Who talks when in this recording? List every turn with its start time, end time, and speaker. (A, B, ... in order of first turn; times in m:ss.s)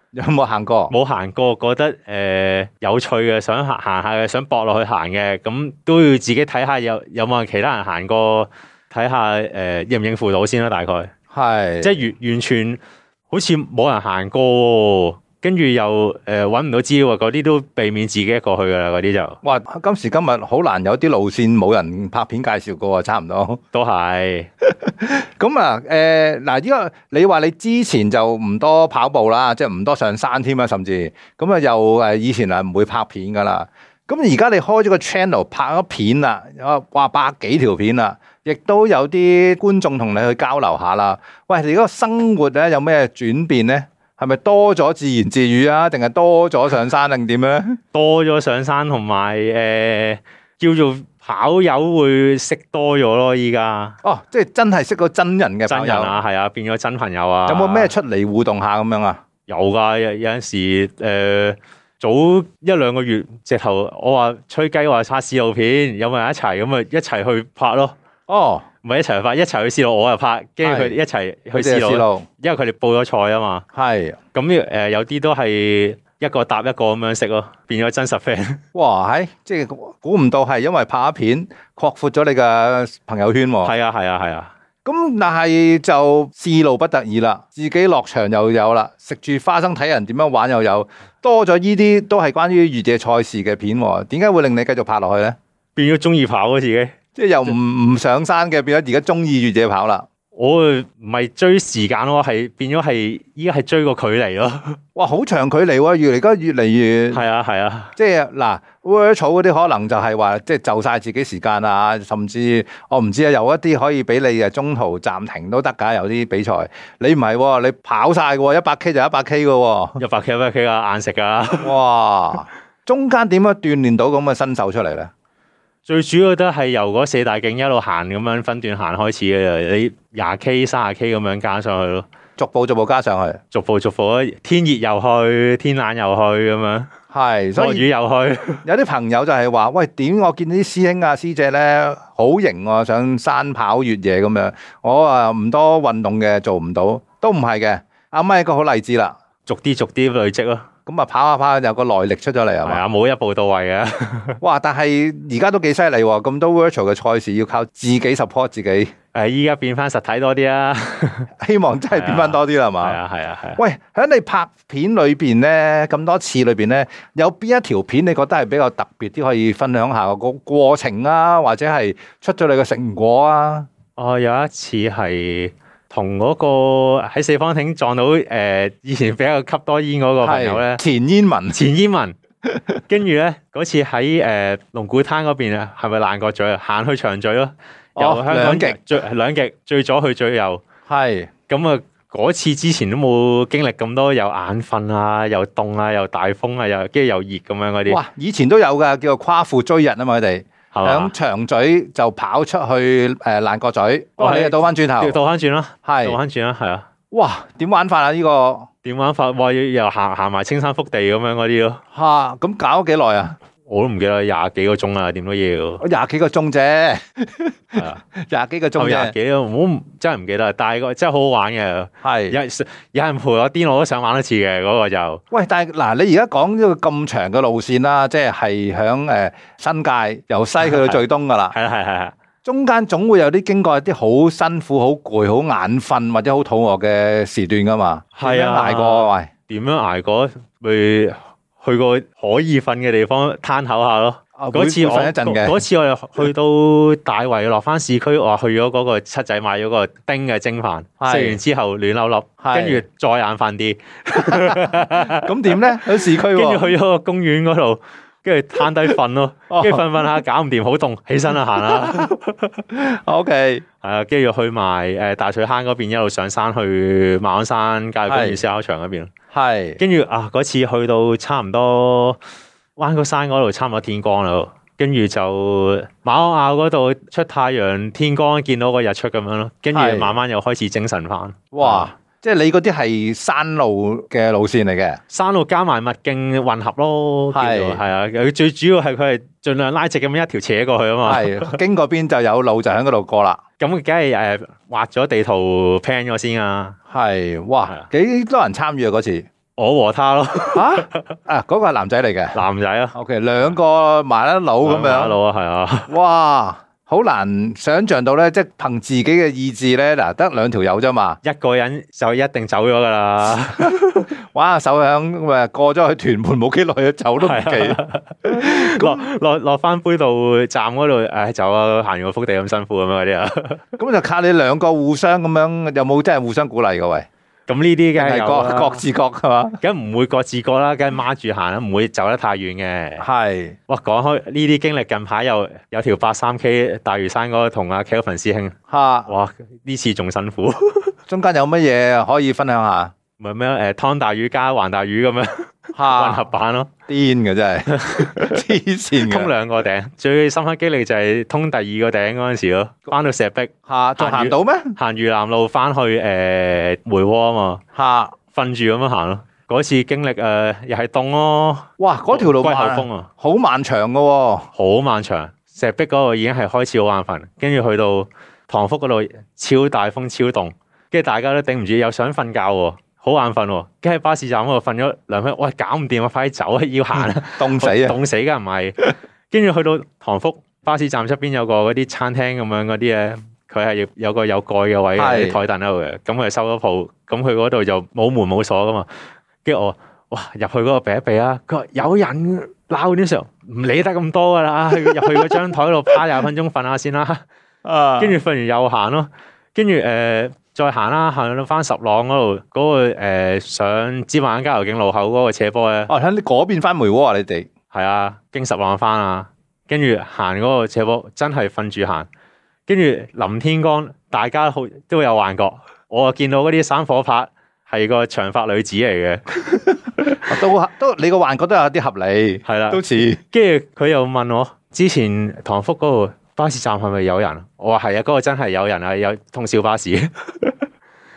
0:00.1-0:00.9 A
0:00.9-0:11.1 B
0:11.3-0:12.0 A
0:11.8-0:12.8 B
0:13.3-0:19.4 B
0:19.4-0:23.6 A
0:23.7-0:24.5 B
0:24.6-0:47.8 A
0:47.9-0:54.0 B
0:54.0-0:56.2 A
0:55.7-0:57.9 B
0:57.5-0:59.2 A
0:59.5-1:08.0 B
1:08.3-1:08.6 A
1:08.8-1:13.6 B
1:10.6-1:11.0 A
1:11.5-1:12.2 A
1:13.7-1:14.2 A
1:14.3-1:18.6 B
1:18.8-1:23.7 A
1:23.6-1:24.5 B
1:24.8-1:35.4 A
1:35.8-1:36.9 B
1:37.2-1:40.0 A
1:40.4-1:44.8 B
1:45.0-1:47.2 A
1:47.1-1:47.9 B
1:48.0-2:00.0 A
2:00.0-2:01.7 B
2:01.6-2:05.1 A
2:05.9-2:12.0 B
2:12.4-2:13.4 A
2:13.5-2:16.9 B
2:17.1-2:17.9 A
2:17.6-2:18.6 B
2:18.6-2:29.2 A
2:29.5-2:30.7 B
2:30.9-2:32.8 A
2:32.6-2:34.4 B
2:34.4-2:38.9 A
2:39.1-2:41.3 B
2:41.4-2:43.0 A
2:41.9-2:43.6 B
2:43.6-2:53.7 A
2:54.0-3:00.8 B
3:00.2-3:01.6 A
3:01.5-3:02.2 B
3:02.5-3:02.8 A
3:02.9-3:10.6 B
3:08.0-3:09.0 A
3:10.9-3:11.3 A
3:11.5-3:18.0 B
3:17.9-3:25.2 A
3:20.7-3:21.1 B
3:24.2-3:26.9 B
3:25.9-3:26.2 A
3:27.1-3:28.7 A
3:28.8-3:31.8 B
3:31.9-3:33.4 A
3:33.6-3:35.8 B
3:35.8-3:39.1 A
3:38.8-3:45.2 B
3:42.0-3:42.4 A
3:45.3-3:51.5 A
3:50.6-3:51.0 B
3:51.5-3:52.1 B
3:52.4-3:59.3 A
3:58.1-4:22.5 B
4:04.4-4:05.6 A
4:11.0-4:11.4 A
4:12.4-4:12.8 A
4:14.2-4:16.8 A
4:19.5-4:20.1 A
4:21.5-4:22.1 A
4:22.7-4:23.6 A
4:23.8-4:29.1 B
4:28.1-4:28.4 A
4:29.3-4:29.8 A
4:29.8-4:32.2 B
4:32.8-4:41.9 B
4:39.7-4:40.1 A
4:41.5-4:45.0 A
4:45.1-4:51.6 B
4:47.3-4:47.8 A
4:51.0-4:53.4 A
4:53.6-4:56.8 B
4:56.9-4:59.2 A
4:59.6-5:01.0 B
5:00.5-5:02.4 A
5:02.3-5:03.0 B
5:02.9-5:05.2 A
5:04.6-5:05.9 B
5:05.9-5:11.2 A
5:11.2-5:14.1 B
5:13.2-5:19.0 A
5:17.2-5:23.6 B
5:23.8-5:27.1 A
5:27.5-5:28.8 B
5:28.0-5:29.6 A
5:29.6-5:33.0 B
5:33.0-5:33.6 A
5:33.7-5:38.5 B
5:38.7-5:39.1 A
5:39.1-5:41.0 B
5:41.1-5:42.9 A
5:43.2-5:46.7 B
5:45.8-5:46.3 A
5:46.9-5:49.3 A
5:47.7-5:48.4 B
5:49.0-5:57.6 B
5:53.7-5:54.8 A
5:57.7-5:58.1 A
5:58.3-6:03.1 B
6:01.8-6:04.5 A
6:04.6-6:18.8 B
6:16.9-6:18.0 A
6:19.3-6:28.9 B
6:25.0-6:25.4 A
6:29.4-6:37.2 B
6:37.6-6:38.2 A
6:38.0-6:45.9 B
6:45.9-6:47.5 A
6:47.7-6:52.1 B
6:52.7-7:00.2 B
7:00.1-7:03.2 A
7:02.4-7:10.6 B